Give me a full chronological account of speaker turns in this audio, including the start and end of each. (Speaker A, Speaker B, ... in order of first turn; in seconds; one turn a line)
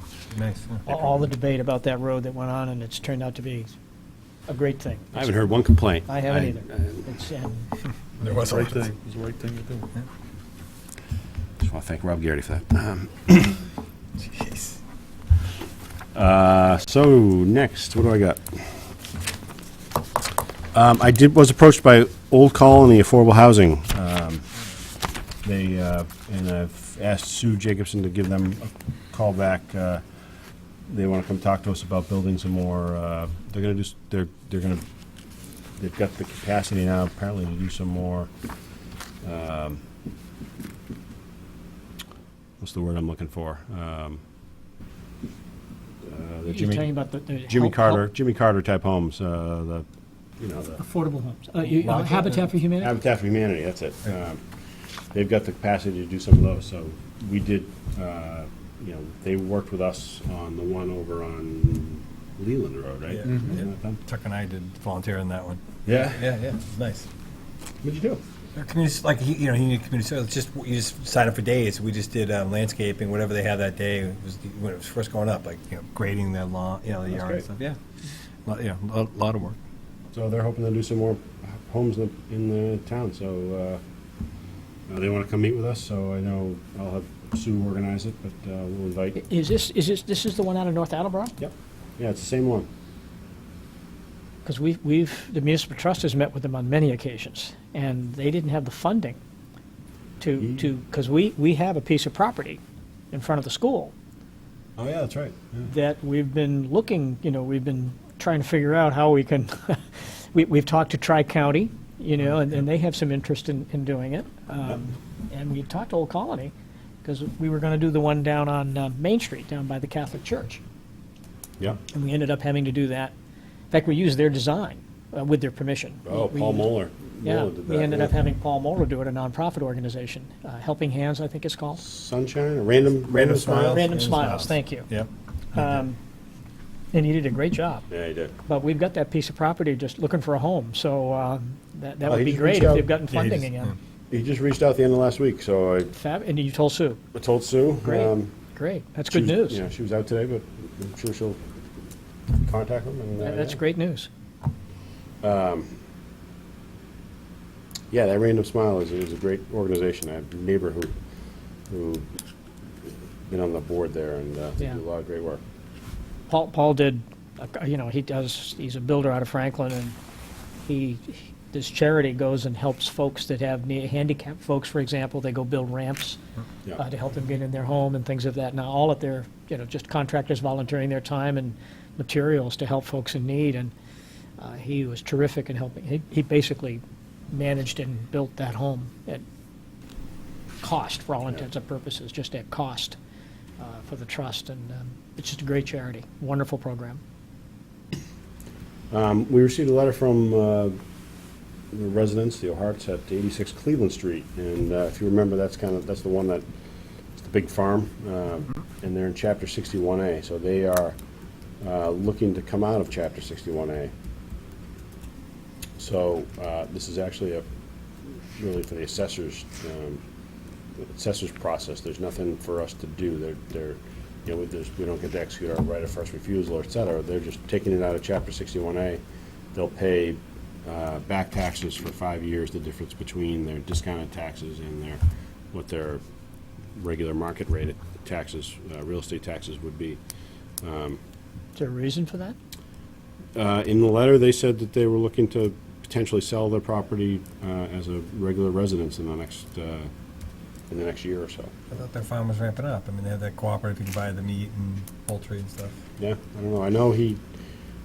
Speaker A: 0.3-0.9
Speaker B: 0.9-3.7
Speaker B: 4.5-5.5
Speaker C: 5.1-7.1
Speaker B: 6.1-7.6
Speaker A: 8.2-8.8
Speaker D: 8.2-9.9
Speaker C: 11.6-13.7
Speaker A: 14.3-14.8
Speaker C: 16.1-18.7
Speaker C: 20.7-24.4
Speaker C: 25.4-30.0
Speaker C: 30.9-34.8
Speaker C: 35.8-38.3
Speaker C: 39.2-39.8
Speaker C: 42.6-44.2
Speaker C: 46.0-46.9
Speaker B: 46.5-48.1
Speaker C: 47.5-49.9
Speaker C: 50.4-50.8
Speaker B: 50.8-52.9
Speaker A: 51.8-52.5
Speaker C: 52.7-54.4
Speaker C: 55.1-64.0
Speaker A: 63.1-67.1
Speaker D: 63.2-63.6
Speaker C: 65.9-66.3
Speaker C: 67.8-68.2
Speaker A: 68.6-77.8
Speaker C: 77.1-77.5
Speaker A: 78.5-79.6
Speaker C: 80.1-83.8
Speaker C: 84.9-89.2
Speaker B: 89.2-91.3
Speaker C: 91.4-92.7
Speaker B: 94.5-99.2
Speaker B: 100.2-102.6
Speaker C: 100.4-100.7
Speaker B: 103.1-103.9
Speaker C: 104.8-105.7
Speaker B: 105.7-116.5
Speaker B: 117.0-120.6
Speaker C: 121.6-121.8
Speaker B: 121.9-123.1
Speaker B: 123.7-126.7
Speaker C: 126.0-128.2
Speaker B: 127.2-131.8
Speaker C: 131.8-134.3
Speaker A: 133.0-135.8
Speaker B: 133.7-134.9
Speaker B: 135.5-136.0
Speaker B: 136.9-137.8
Speaker C: 137.9-138.3
Speaker B: 138.4-143.8
Speaker C: 142.0-143.5
Speaker C: 144.1-145.9
Speaker B: 145.9-147.0
Speaker C: 147.1-148.4
Speaker B: 147.8-149.6
Speaker C: 149.1-151.4
Speaker C: 152.4-153.6
Speaker B: 153.2-154.1
Speaker C: 155.2-155.7
Speaker C: 157.9-160.9
Speaker C: 161.7-162.1
Speaker C: 163.3-165.4
Speaker B: 166.3-170.0
Speaker B: 170.7-176.2
Speaker B: 176.8-183.7
Speaker B: 184.4-189.2
Speaker B: 190.6-193.0
Speaker B: 193.6-197.0
Speaker C: 198.9-200.8
Speaker C: 201.7-206.5
Speaker C: 207.2-211.0
Speaker C: 211.6-213.9
Speaker C: 215.8-217.4
Speaker C: 218.4-220.0
Speaker C: 220.8-229.0
Speaker C: 229.5-235.0
Speaker C: 235.5-236.0
Speaker C: 236.8-240.0
Speaker C: 240.6-241.0
Speaker B: 241.6-242.4
Speaker C: 243.4-249.9
Speaker C: 250.7-251.6
Speaker A: 251.7-255.8
Speaker C: 256.0-257.2